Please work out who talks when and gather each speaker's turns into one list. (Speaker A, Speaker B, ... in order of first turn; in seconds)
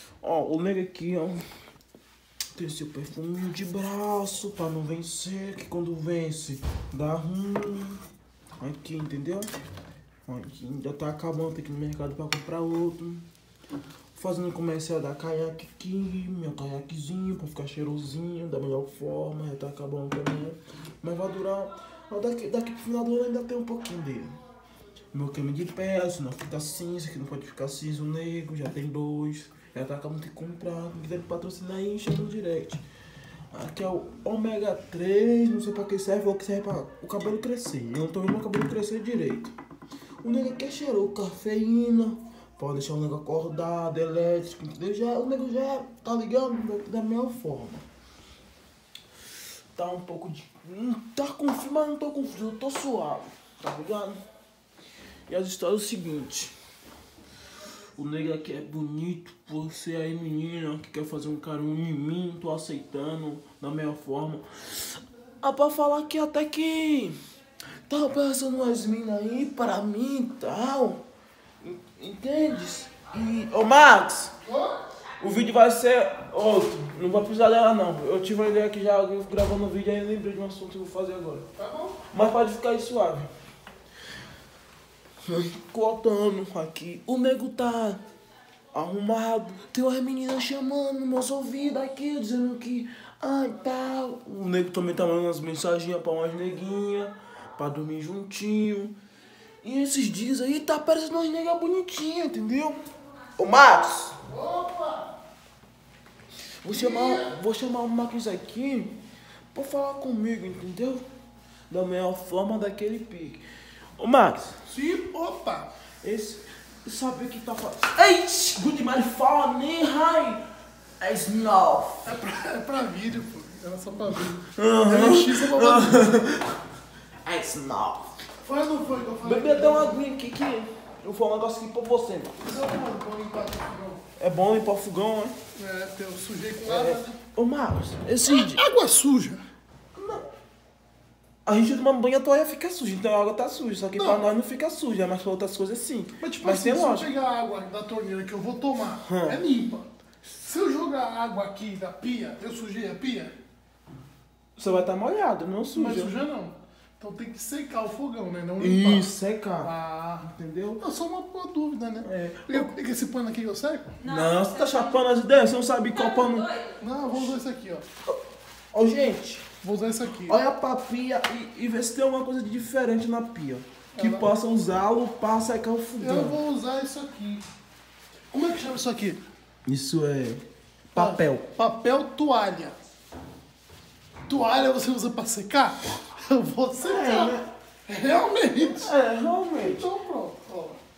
Speaker A: 0.2-1.4, 2.5-8.0, 8.6-9.5, 10.2-13.2, 14.1-24.3, 25.1-32.8, 33.5-39.5, 40.2-47.8, 49.7-54.2, 55.3-56.5, 58.0-67.2, 67.9-71.0, 71.6-74.3, 75.2-81.5, 82.1-83.3, 85.2-88.0, 88.7-98.9, 99.6-102.8, 103.4-104.2, 106.6-109.0, 109.5-111.0, 111.7-113.4, 114.0-114.6, 116.0-120.4, 121.0-122.1, 124.5-126.6, 127.2-128.1, 129.2-132.4, 134.2-135.3, 136.6-138.6, 139.9-140.2, 141.4-147.1, 149.0-149.4, 154.6-156.1, 158.6-159.7, 160.2-160.8, 162.0-162.7, 164.0-166.5, 168.7-169.4, 170.2-176.4, 179.7-181.5, 186.8-187.4, 188.7-189.9
Speaker B: 74.4-74.8, 81.6-82.0, 104.3-105.1, 106.7-107.4, 114.7-115.7, 122.0-126.2, 128.4-130.0, 132.4-134.0, 135.5-137.2, 138.2-139.4, 143.9-144.2, 146.2-153.3, 155.7-159.1, 159.6-164.0, 166.8-167.8, 169.6-170.4, 173.9-174.3, 176.0-177.4, 178.3-179.2, 180.9-182.8, 184.3-188.9, 189.6-190.8